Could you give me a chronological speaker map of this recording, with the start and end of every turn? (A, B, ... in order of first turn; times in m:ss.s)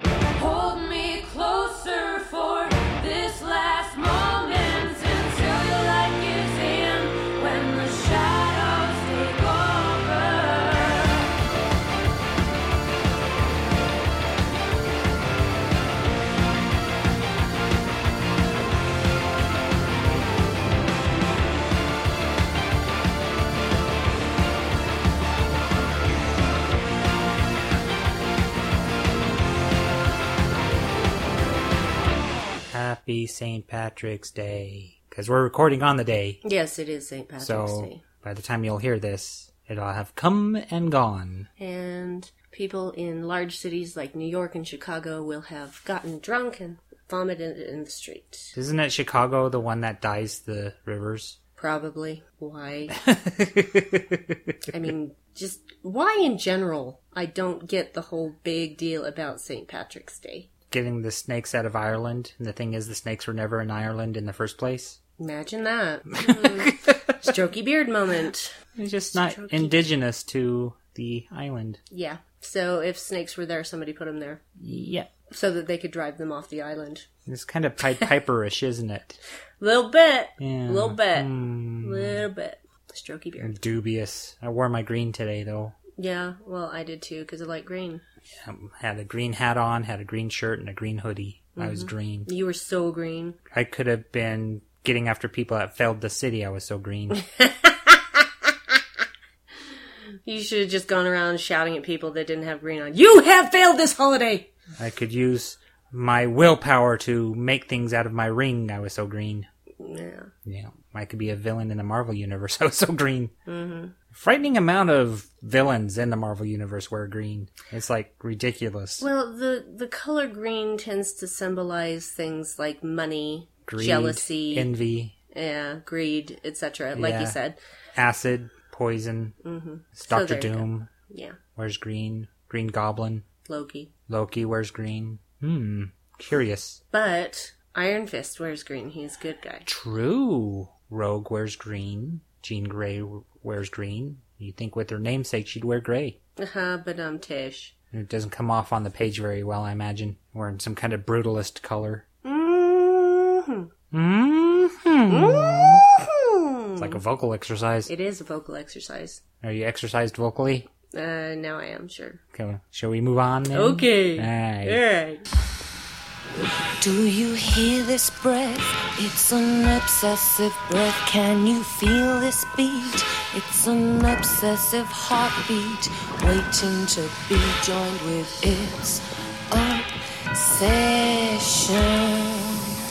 0:00.4-0:11.3 A
0:32.7-0:36.4 B
0:36.4-0:38.0 C
0:37.4-0:41.5 B
0:41.6-0:48.6 C
0:48.6-0:51.4 B
0:51.6-0:52.9 C
0:52.9-0:54.5 B
0:54.7-1:00.5 C
1:00.7-1:05.0 B
1:05.2-1:08.6 C
1:06.1-1:07.2 B
1:08.8-1:11.8 B
1:09.1-1:09.8 C
1:11.9-1:14.4 C
1:14.6-1:15.1 B
1:15.3-1:17.1 C
1:17.3-1:19.2 B
1:19.6-1:23.6 C
1:20.4-1:22.2 B
1:23.4-1:25.8 B
1:26.0-1:28.0 C
1:28.4-1:32.3 B
1:31.6-1:33.4 C
1:33.5-1:37.2 B
1:37.1-1:38.8 C
1:40.2-1:44.5 C
1:44.8-1:49.5 B
1:49.8-1:50.3 C
1:50.4-1:53.3 B
1:53.5-1:53.9 C
1:54.1-1:59.1 B
1:59.0-2:04.7 C
2:03.7-2:05.1 B
2:05.3-2:07.6 C
2:07.0-2:07.4 B
2:08.0-2:09.3 B
2:09.4-2:11.4 C
2:10.0-2:10.9 B
2:11.6-2:13.2 B
2:13.4-2:13.9 C
2:14.1-2:16.8 B
2:16.9-2:19.7 C
2:19.7-2:26.2 B
2:26.4-2:27.7 C
2:27.9-2:32.0 B
2:32.2-2:33.7 C
2:33.9-2:35.9 B
2:35.1-2:37.0 C
2:36.8-2:37.9 B
2:37.9-2:39.2 C
2:39.4-2:40.7 B
2:40.9-2:42.2 C
2:42.3-2:44.8 B
2:43.5-2:45.2 C
2:46.8-3:02.6 A